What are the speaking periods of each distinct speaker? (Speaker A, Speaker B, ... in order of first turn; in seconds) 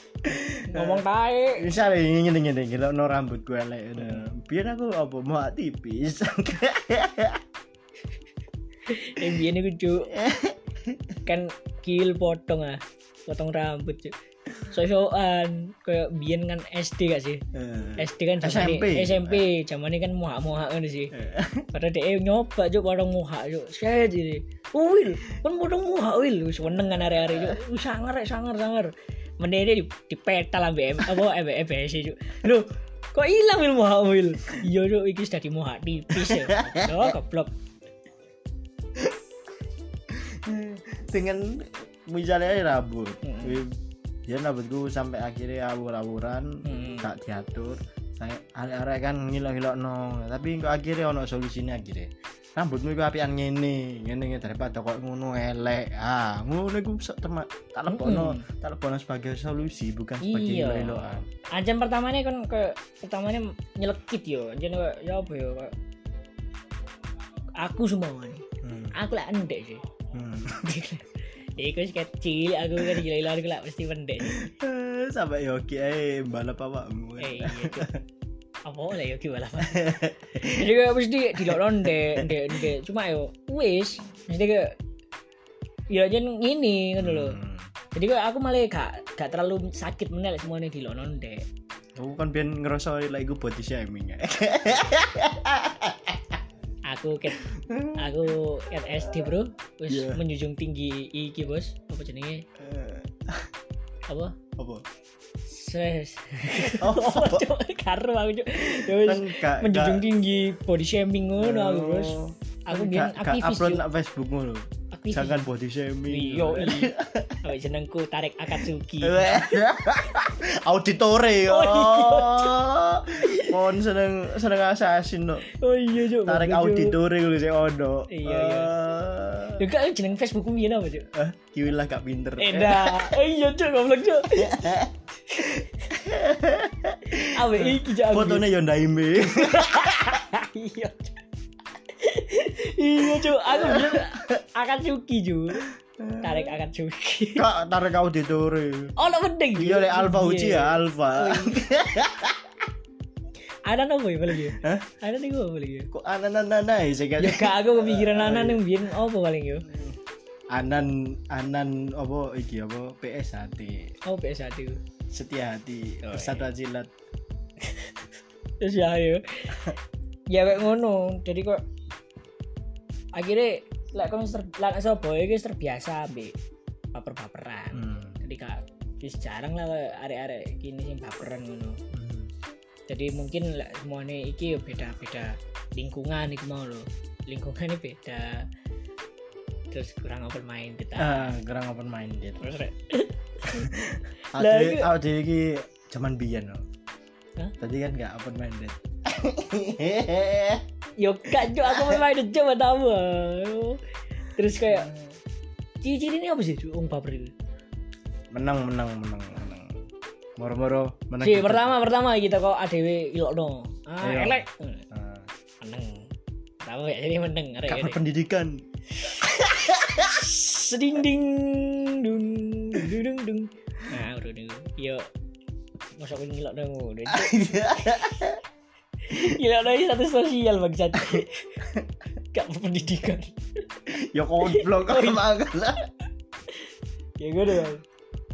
Speaker A: 0.2-1.0, 1.6-7.4, 10.1-11.1, 17.5-19.5, 21.1-21.7, 26.9-27.6, 36.1-37.1, 40.1-61.3, 68.6-69.0, 70.1-70.8, 74.2-78.0, 79.6-80.7, 81.3-82.7, 87.0-87.7, 92.0-96.4, 97.3-98.3, 99.9-100.2, 102.6-103.5, 104.5-104.8, 106.6-107.5, 108.7-110.1, 111.4-117.4, 119.0-125.5, 126.1-129.6, 131.1-133.2, 134.3-140.2, 143.0-144.4, 145.6-146.5, 147.3-148.9, 149.6-152.5, 154.3-154.9, 155.9-158.6, 160.5-163.9, 165.1-166.9, 177.7-178.2, 181.9-182.3, 191.0-192.6, 193.5-196.6, 197.6-200.6, 201.4-202.0, 204.7-205.0, 208.3-209.8, 210.4-211.8, 214.0-215.3, 217.7-218.6, 219.3-220.2, 227.1-228.4, 233.9-235.9
Speaker B: 0.7-1.6, 4.0-4.3, 8.9-10.1, 11.2-14.1, 14.7-17.4, 18.0-21.1, 21.7-37.5, 43.2-43.6, 46.6-47.1, 57.9-58.4, 60.2-65.7, 67.6-69.8, 70.6-74.5, 77.2-77.9, 78.6-84.7, 85.9-87.4, 87.9-91.4, 96.9-102.4, 104.1-104.4, 105.4-113.8, 114.9-115.4, 116.1-119.6, 121.5-122.6, 123.2-123.6, 125.5-127.0, 128.1-128.7, 129.6-131.1, 132.4-135.6, 137.2-138.5, 139.3-141.2, 141.9-145.7, 146.2-147.4, 149.0-151.6, 153.7-155.9, 157.2-159.7, 164.0-164.8, 166.0-166.5, 168.6-169.7, 170.3-171.6, 173.2-176.3, 176.9-181.8, 182.9-188.4, 189.7-191.3, 192.4-193.7, 194.3-194.9, 201.0-203.8, 204.3-204.9, 205.8-207.3, 211.2-214.8, 215.6-216.1, 216.6-218.0, 218.9-225.1, 226.0-228.1, 229.1-231.6, 232.3-233.8, 234.4-235.2, 236.5-237.8